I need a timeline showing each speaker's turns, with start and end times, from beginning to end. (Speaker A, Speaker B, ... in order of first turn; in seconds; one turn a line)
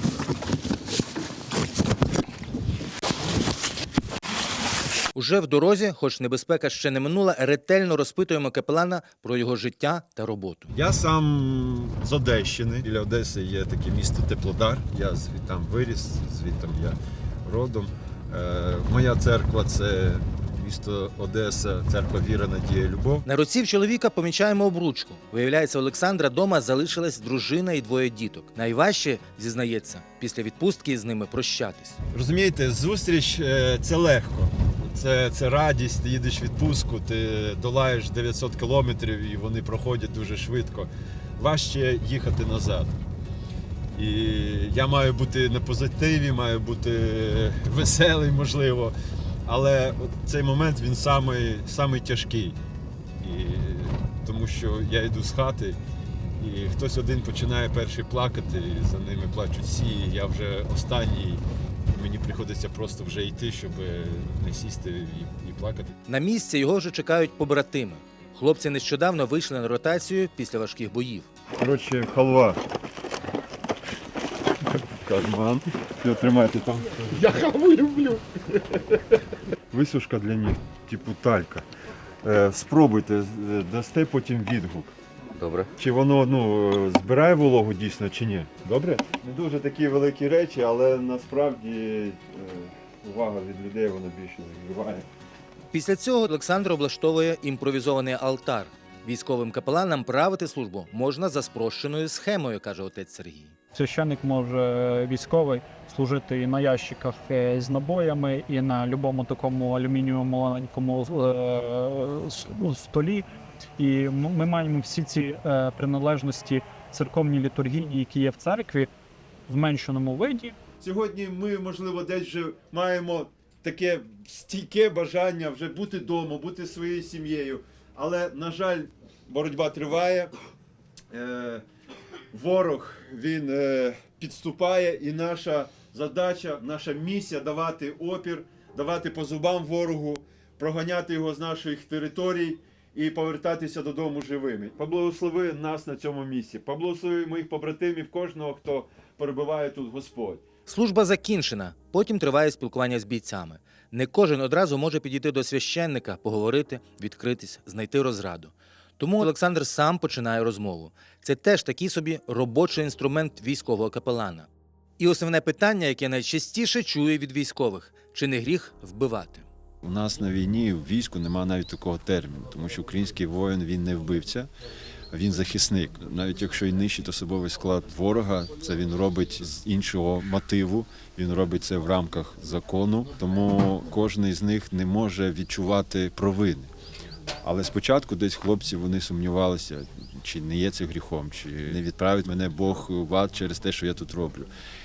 Speaker A: 5.1-10.7
Speaker B: 10.7-23.2
Speaker A: 23.2-32.0
Speaker B: 32.1-43.0
Speaker B: 43.9-48.9
Speaker B: 49.5-52.6
Speaker B: 53.2-55.8
Speaker B: 56.4-65.9
Speaker A: 66.1-71.3
Speaker B: 71.6-72.6
Speaker B: 74.8-78.0
Speaker B: 79.7-81.6
Speaker B: 82.2-84.9
Speaker A: 85.3-85.7
Speaker B: 85.7-95.1
Speaker A: 95.7-103.5
Speaker C: 103.7-113.2
Speaker C: 113.8-118.9
Speaker C: 119.5-120.5
Speaker B: 120.8-130.3
Speaker B: 131.1-131.6
Speaker B: 132.3-150.4
Speaker A: 150.7-169.4
Speaker B: 169.8-174.5
Speaker B: 175.1-186.7
Speaker B: 187.4-194.5